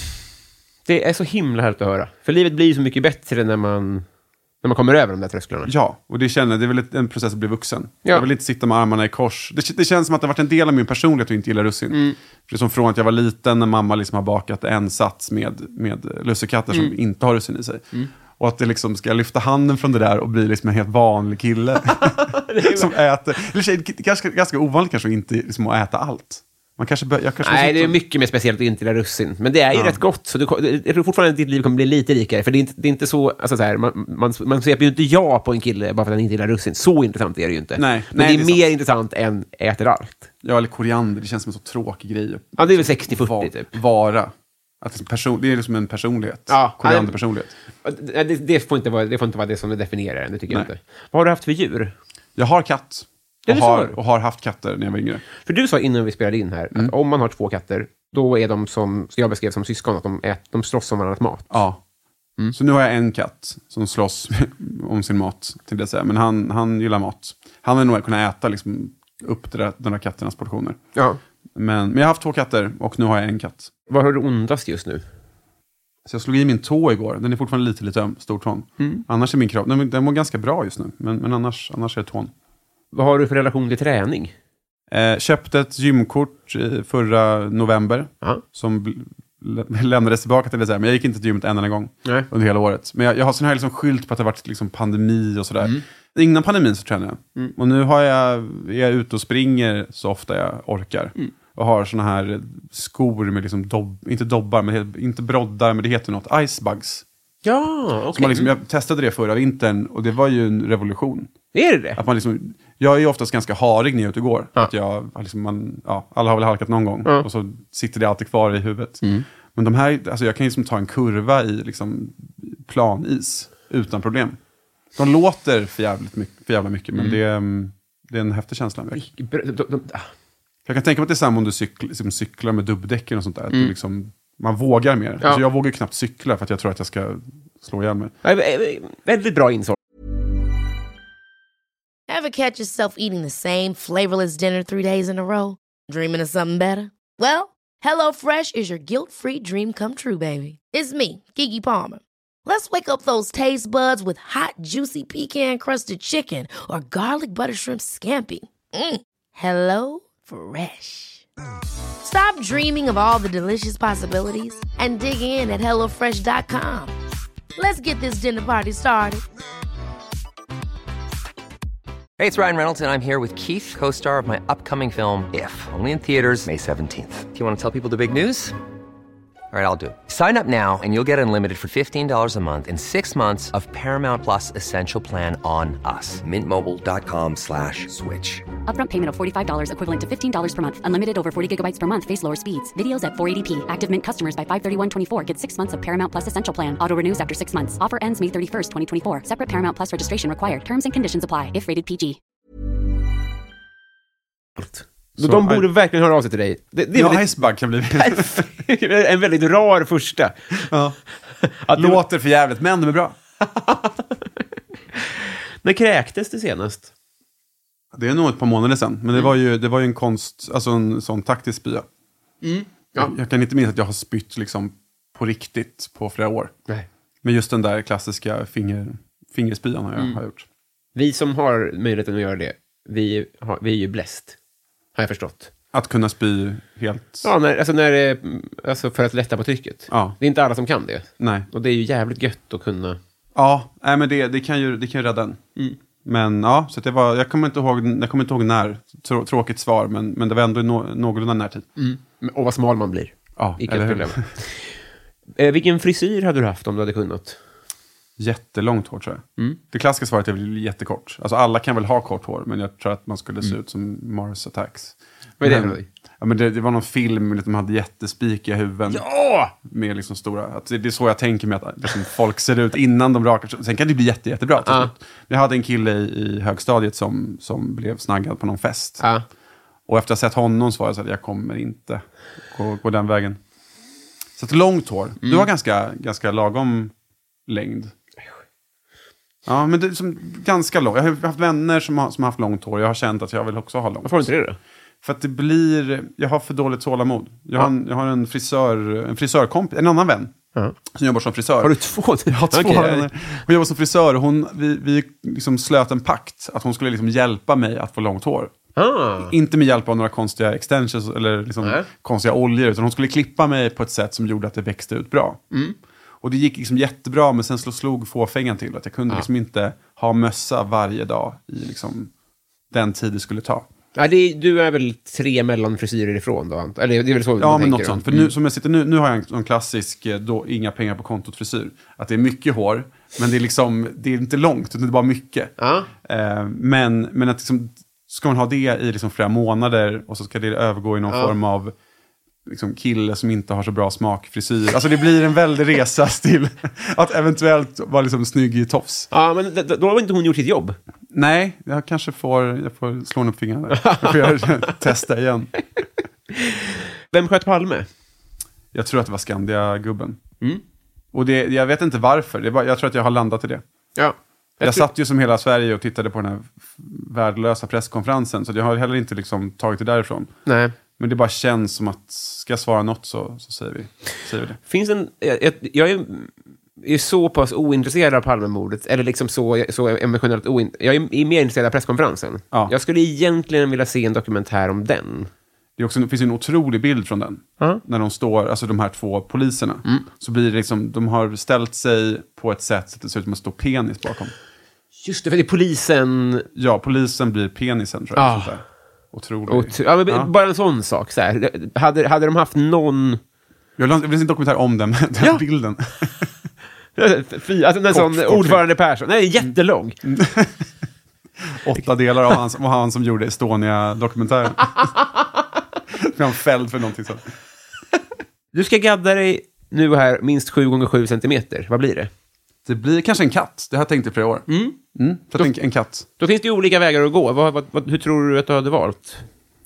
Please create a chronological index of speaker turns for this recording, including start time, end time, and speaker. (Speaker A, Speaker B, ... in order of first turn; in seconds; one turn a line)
Speaker A: 0.9-4.1
Speaker A: 4.6-5.7
Speaker B: 5.7-28.0
Speaker A: 21.9-22.9
Speaker A: 27.4-40.3
Speaker B: 29.7-30.0
Speaker B: 37.8-38.6
Speaker B: 40.4-47.5
Speaker A: 42.6-43.7
Speaker A: 46.5-47.2
Speaker A: 47.8-51.9
Speaker B: 52.4-55.2
Speaker A: 53.5-54.0
Speaker A: 55.4-61.6
Speaker B: 61.5-61.8
Speaker B: 62.5-70.8
Speaker B: 71.5-73.7
Speaker A: 73.9-75.0
Speaker B: 76.1-82.3
Speaker A: 82.9-84.3
Speaker B: 84.9-107.0
Speaker A: 107.4-108.5
Speaker B: 108.1-111.3
Speaker A: 111.5-112.0
Speaker B: 112.0-119.0
Speaker B: 119.5-124.4
Speaker B: 125.0-129.0
Speaker A: 128.9-130.1
Speaker B: 130.7-138.1
Speaker A: 138.2-139.8
Speaker C: 142.1-161.2
Speaker C: 162.0-166.9
Speaker C: 167.6-169.2
Speaker D: 172.2-178.6
Speaker D: 179.5-188.4
Speaker E: 188.7-202.2
Speaker A: 204.6-207.3
Speaker B: 205.2-205.7
Speaker B: 206.9-208.5
Speaker A: 207.9-210.4
Speaker B: 210.7-211.0
Speaker A: 211.4-212.0
Speaker B: 211.7-213.2
Speaker A: 213.4-214.1
Speaker A: 215.0-216.9
Speaker B: 217.9-221.9
Speaker A: 222.4-223.1
Speaker B: 223.0-226.5
Speaker B: 227.2-230.5
Speaker A: 230.9-234.4
Speaker A: 234.9-235.5
Speaker B: 235.7-237.3
Speaker A: 237.2-243.0
Speaker B: 239.9-240.2
Speaker B: 241.2-241.5
Speaker B: 243.3-245.4
Speaker B: 246.0-251.7
Speaker A: 251.8-254.7
Speaker B: 253.4-254.3
Speaker A: 255.4-257.4
Speaker B: 258.2-279.0
Speaker A: 265.4-265.9
Speaker A: 268.9-269.5
Speaker A: 274.6-274.9
Speaker B: 279.9-283.4
Speaker B: 284.4-286.9
Speaker B: 287.5-287.9
Speaker B: 289.5-294.3
Speaker A: 294.1-294.6
Speaker B: 295.0-300.4
Speaker B: 300.9-308.5
Speaker A: 301.6-303.1
Speaker A: 308.8-309.3
Speaker B: 309.3-315.4
Speaker A: 311.6-311.9
Speaker B: 316.2-322.1
Speaker B: 322.7-323.7
Speaker A: 323.9-328.3
Speaker B: 327.4-341.7
Speaker A: 335.6-335.9
Speaker A: 341.1-341.3
Speaker B: 342.5-349.1
Speaker A: 349.1-350.8
Speaker B: 351.1-355.5
Speaker A: 353.7-354.7
Speaker A: 356.3-357.9
Speaker B: 358.7-360.2
Speaker B: 361.1-363.6
Speaker A: 363.9-364.9
Speaker B: 364.6-370.3
Speaker A: 370.5-370.8
Speaker B: 371.0-374.6
Speaker A: 374.7-385.3
Speaker B: 385.8-394.3
Speaker A: 395.0-396.5
Speaker B: 396.6-400.3
Speaker A: 398.1-398.6
Speaker A: 399.5-403.2
Speaker B: 403.8-406.3
Speaker A: 407.0-410.0
Speaker B: 407.9-408.6
Speaker B: 410.0-410.7
Speaker B: 411.5-414.9
Speaker B: 415.9-417.3
Speaker A: 418.5-422.1
Speaker B: 422.6-426.1
Speaker A: 424.5-424.8
Speaker A: 426.2-429.2